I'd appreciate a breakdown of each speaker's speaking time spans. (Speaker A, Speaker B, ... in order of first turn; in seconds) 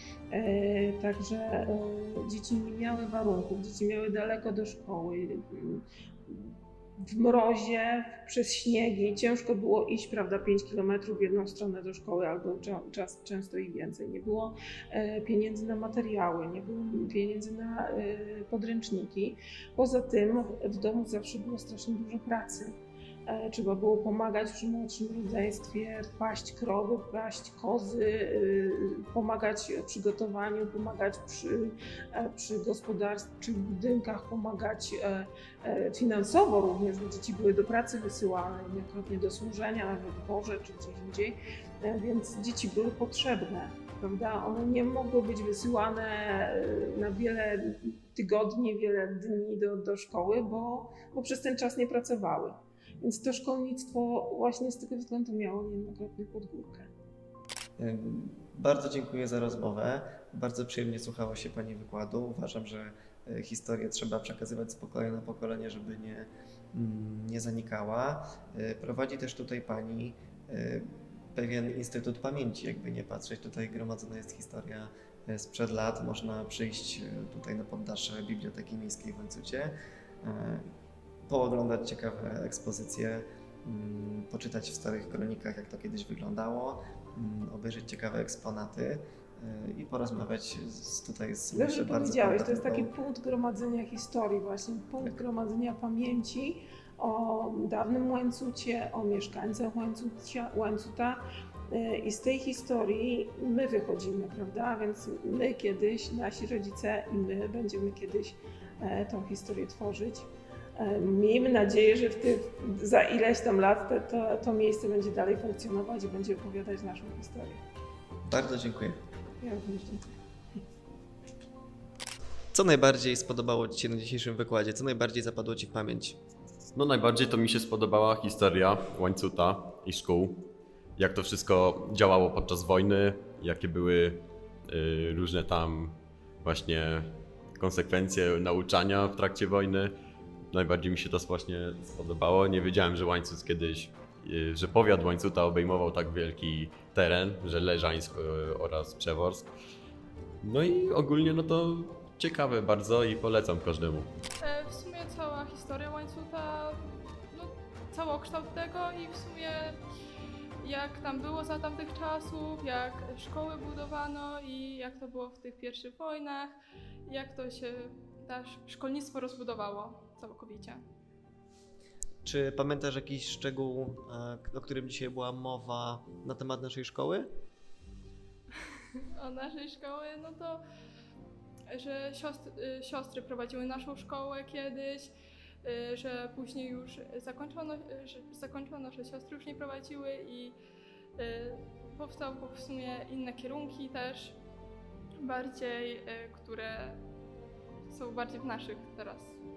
Speaker A: 0.3-22.7, 23.2-56.9, 91.5-117.6, 119.4-120.1
Speaker B: 57.8-80.7, 81.3-92.9, 118.2-119.0, 122.5-126.2, 172.2-177.3
Speaker C: 126.7-130.3, 131.0-137.1, 137.6-139.9, 140.5-149.5, 150.4-154.1
Speaker D: 154.4-159.8, 160.6-166.5, 167.1-170.8, 179.2-180.6, 181.7-185.1, 185.6-190.6, 191.2-194.4, 195.2-197.0, 197.9-199.4